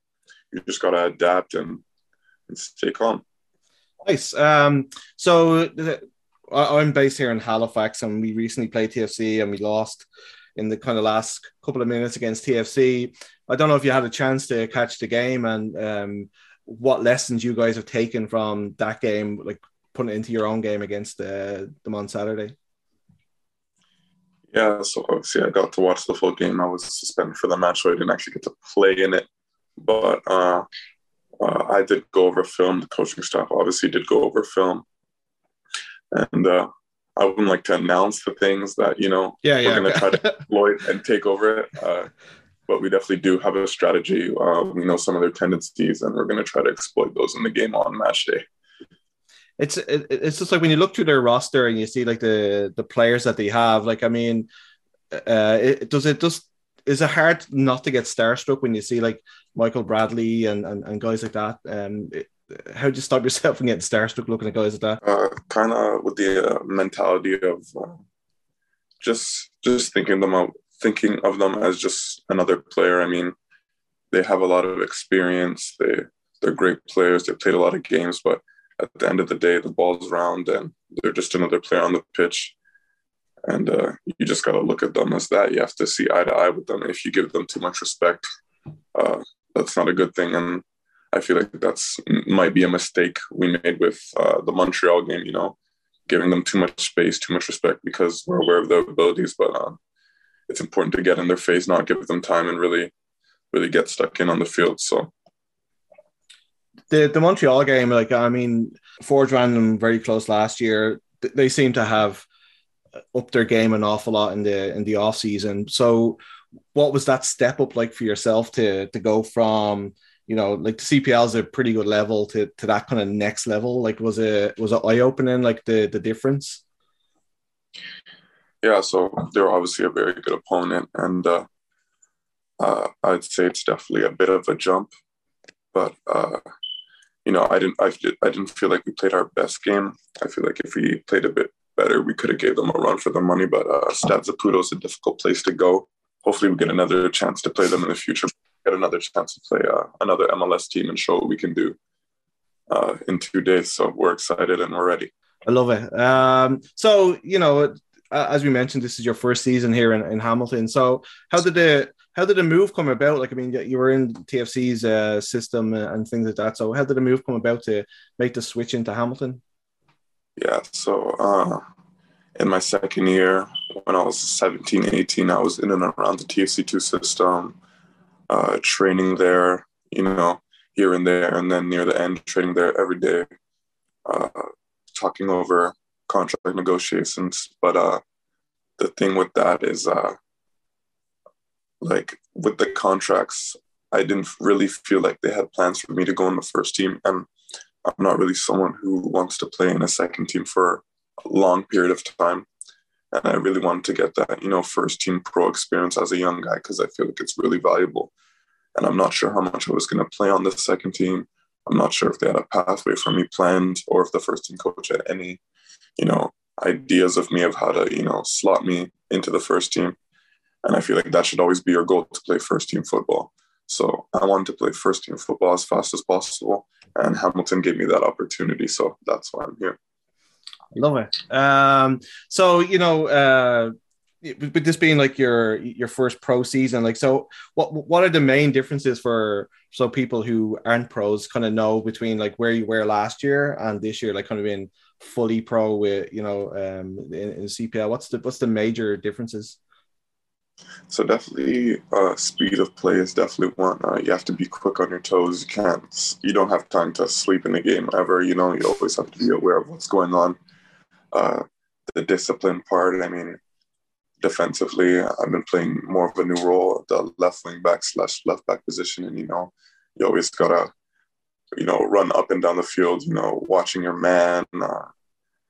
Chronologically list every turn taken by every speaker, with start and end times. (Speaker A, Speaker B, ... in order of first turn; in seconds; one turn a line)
Speaker A: 0.5-1.8
Speaker A: 2.5-3.2
Speaker B: 4.0-22.6
Speaker A: 24.5-29.3
Speaker A: 29.8-30.7
Speaker A: 31.4-34.9
Speaker A: 36.1-42.1
Speaker B: 39.4-40.4
Speaker A: 42.7-48.4
Speaker B: 49.6-54.5
Speaker B: 55.1-65.0
Speaker A: 65.0-68.0
Speaker A: 69.0-73.3
Speaker A: 74.1-82.5
Speaker A: 83.5-88.2
Speaker A: 89.0-95.6
Speaker A: 96.1-99.8
Speaker A: 100.5-102.9
Speaker A: 103.5-105.1
Speaker B: 106.9-112.3
Speaker B: 113.1-116.2
Speaker B: 116.7-126.6
Speaker A: 128.6-131.5
Speaker A: 132.6-134.9
Speaker A: 135.7-136.4
Speaker A: 137.2-151.8
Speaker A: 152.7-155.1
Speaker B: 155.5-169.4
Speaker A: 170.4-171.6
Speaker A: 172.4-177.6
Speaker A: 178.3-183.3
Speaker A: 184.1-188.0
Speaker A: 188.8-190.2
Speaker A: 191.8-197.3
Speaker A: 197.8-202.5
Speaker A: 203.1-208.1
Speaker A: 208.8-215.4
Speaker A: 216.0-220.0
Speaker A: 220.7-229.8
Speaker B: 230.7-249.6
Speaker A: 250.9-260.4
Speaker A: 261.1-263.4
Speaker A: 264.2-270.7
Speaker A: 271.6-274.9